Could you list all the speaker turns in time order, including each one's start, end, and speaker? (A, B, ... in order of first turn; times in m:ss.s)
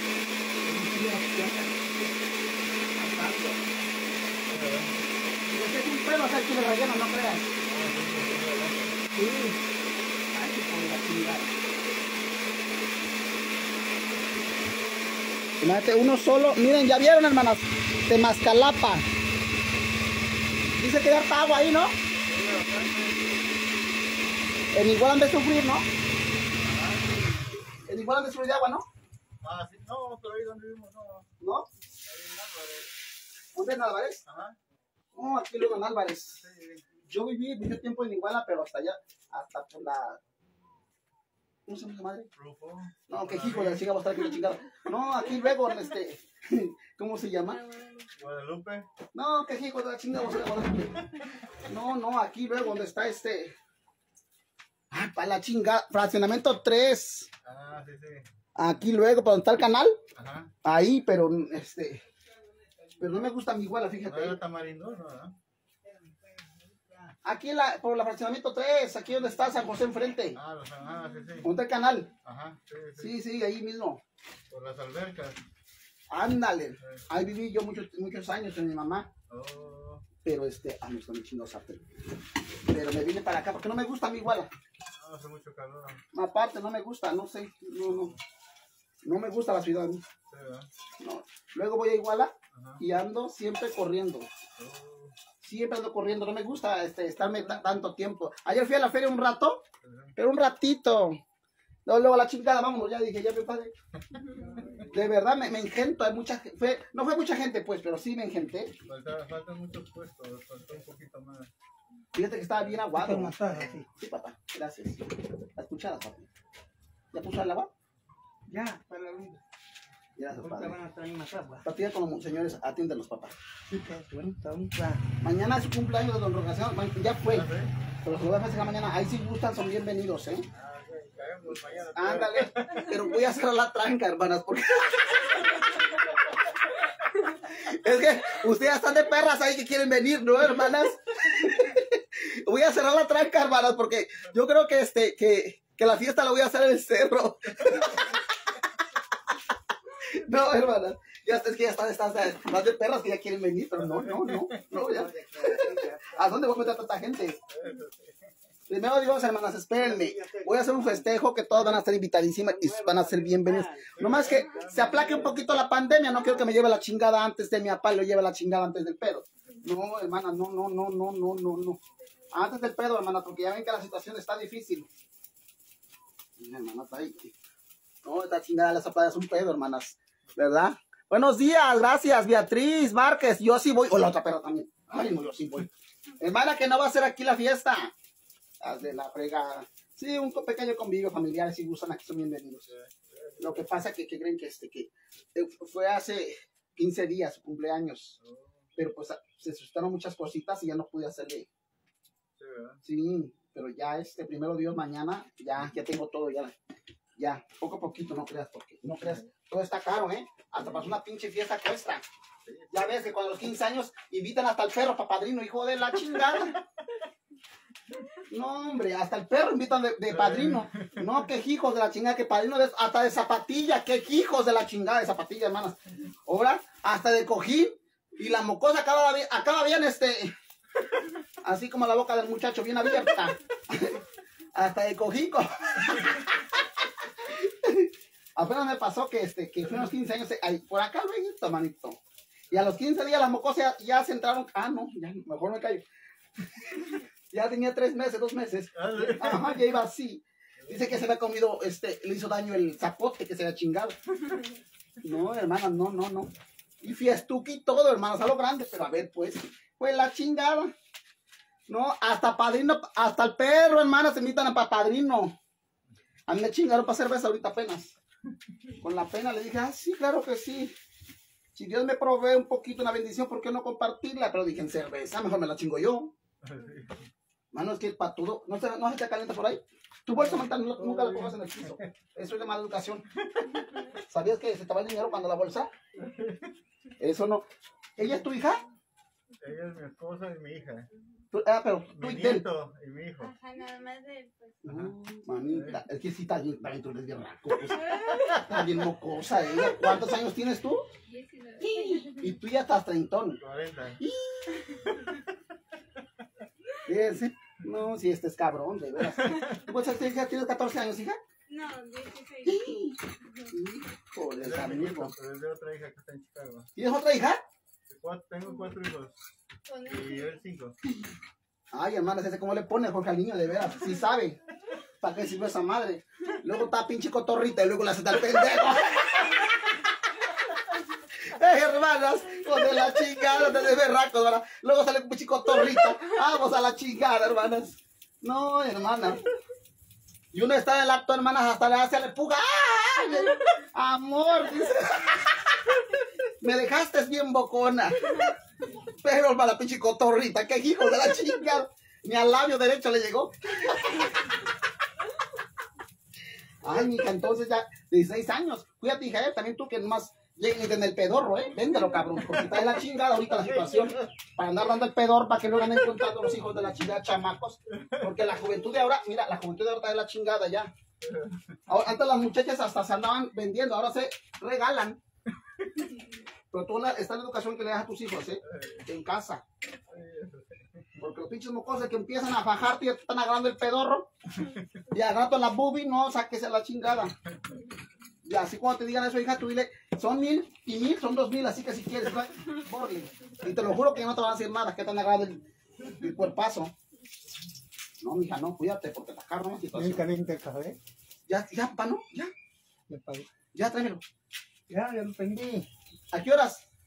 0:00.6-0:01.7 A
0:03.0-0:03.6 A
0:04.5-0:04.9 B
0:05.5-0:07.4 A
0:07.6-0:09.1 B
0:09.1-0:09.5 A
0:10.3-0:11.5 A
0:15.6-0:19.0 A
0:20.8-0:22.0 A
0:22.2-0:23.3 B
0:24.7-0:25.9 A
0:26.6-0:27.3 B
0:27.8-0:28.8 A
0:29.4-0:31.3 B
0:31.4-0:31.7 A
0:32.0-0:32.9 B
0:33.5-0:34.2 A
0:34.2-0:34.6 B
0:35.1-0:36.4 A
0:36.4-0:36.9 B
0:37.0-0:40.2 A
0:41.7-0:42.3 A
0:42.4-0:43.9 B
0:43.1-0:47.6 A
0:47.5-0:48.1 C
0:48.2-0:48.9 B
0:49.1-0:51.0 A
0:51.6-0:53.5 A
0:54.9-0:57.3 A
0:57.4-0:58.2 B
0:58.6-1:00.0 A
1:00.2-1:00.5 B
1:00.6-1:02.0 A
1:03.0-1:04.4 A
1:04.0-1:05.4 B
1:05.8-1:07.1 D
1:07.2-1:10.4 A
1:10.3-1:11.5 B
1:11.4-1:12.1 A
1:12.2-1:13.2 B
1:13.0-1:14.0 A
1:14.5-1:15.4 B
1:16.1-1:19.1 A
1:19.3-1:20.0 B
1:20.2-1:21.8 A
1:22.7-1:24.5 A
1:25.0-1:26.0 B
1:26.1-1:28.1 A
1:27.9-1:28.2 B
1:29.0-1:30.0 A
1:30.3-1:30.7 B
1:31.0-1:34.3 A
1:32.5-1:32.8 B
1:34.6-1:35.1 B
1:35.4-1:39.6 A
1:39.8-1:40.1 B
1:40.2-1:41.2 A
1:41.8-1:43.7 A
1:44.4-1:45.1 D
1:44.6-1:44.8 B
1:44.9-1:48.7 A
1:48.8-1:51.5 B
1:52.1-1:56.3 A
1:52.9-1:53.9 D
1:53.4-1:53.8 B
1:57.1-1:57.7 A
1:58.5-1:59.4 D
2:00.2-2:00.8 A
2:00.4-2:01.7 D
2:01.6-2:03.3 A
2:03.7-2:05.1 D
2:05.2-2:07.5 A
2:07.3-2:07.7 B
2:08.0-2:10.4 A
2:10.5-2:13.0 B
2:11.8-2:15.5 A
2:17.4-2:28.2 A
2:30.1-2:37.4 A
2:33.8-2:34.6 B
2:34.7-2:36.5 D
2:37.5-2:38.2 B
2:38.7-2:51.8 A
2:39.8-2:41.8 D
2:42.4-2:45.2 D
2:44.0-2:45.6 B
2:52.3-2:54.9 A
2:56.4-2:57.3 A
2:58.0-3:07.9 A
3:08.6-3:12.7 A
3:12.7-3:13.7 B
3:13.4-3:18.2 A
3:18.2-3:18.6 B
3:18.8-3:21.5 A
3:22.4-3:22.8 B
3:22.8-3:26.5 A
3:27.2-3:32.0 A
3:29.0-3:29.3 B
3:32.4-3:33.1 B
3:32.7-3:36.6 A
3:36.3-3:36.6 B
3:38.3-3:50.3 A
3:40.1-3:41.2 B
3:51.4-3:54.0 A
3:54.5-3:56.6 A
3:57.2-4:02.0 A
4:02.5-4:05.8 A
4:07.3-4:14.0 A
4:08.7-4:09.6 B
4:10.6-4:11.0 B
4:15.0-4:20.7 A
4:21.7-4:25.3 A
4:26.3-4:28.0 A
4:28.8-4:30.7 A
4:31.5-4:36.1 A
4:36.4-4:37.1 B
4:37.5-4:43.0 A
4:40.8-4:41.8 B
4:44.1-4:45.7 A
4:46.0-4:46.5 B
4:47.0-4:47.4 A
4:48.0-4:48.6 A
4:49.4-4:50.9 B
4:51.3-4:52.4 A
4:52.0-4:53.3 B
4:53.2-4:54.6 C
4:54.6-5:00.9 A
4:54.7-4:54.9 B
4:55.5-4:55.8 B
4:57.9-4:58.4 C
5:01.0-5:02.3 C
5:01.6-5:03.4 A
5:03.4-5:04.0 B
5:04.0-5:04.8 A
5:04.9-5:05.2 B
5:06.8-5:11.2 A
5:09.2-5:09.5 B
5:11.5-5:13.5 C
5:12.4-5:12.9 A
5:13.5-5:15.1 A
5:14.4-5:16.7 B
5:16.8-5:17.4 A
5:17.9-5:19.1 B
5:19.6-5:20.4 C
5:19.8-5:20.7 B
5:21.7-5:24.4 A
5:25.0-5:29.4 A
5:31.2-5:39.2 A
5:40.3-5:45.7 A
5:46.4-5:48.2 A
5:49.0-5:54.1 A
5:56.6-6:10.7 A
6:03.6-6:04.1 B
6:07.8-6:08.1 B
6:11.0-6:11.6 B
6:11.7-6:15.0 A
6:16.5-6:19.4 A
6:18.4-6:18.9 B
6:19.9-6:21.0 B
6:21.0-6:24.1 A
6:24.9-6:27.1 A
6:28.2-6:36.7 A
6:38.0-6:40.0 A
6:39.7-6:40.8 D
6:41.3-6:42.3 A
6:42.9-6:43.3 D
6:43.5-6:44.0 A
6:44.7-6:45.6 D
6:46.1-6:46.6 A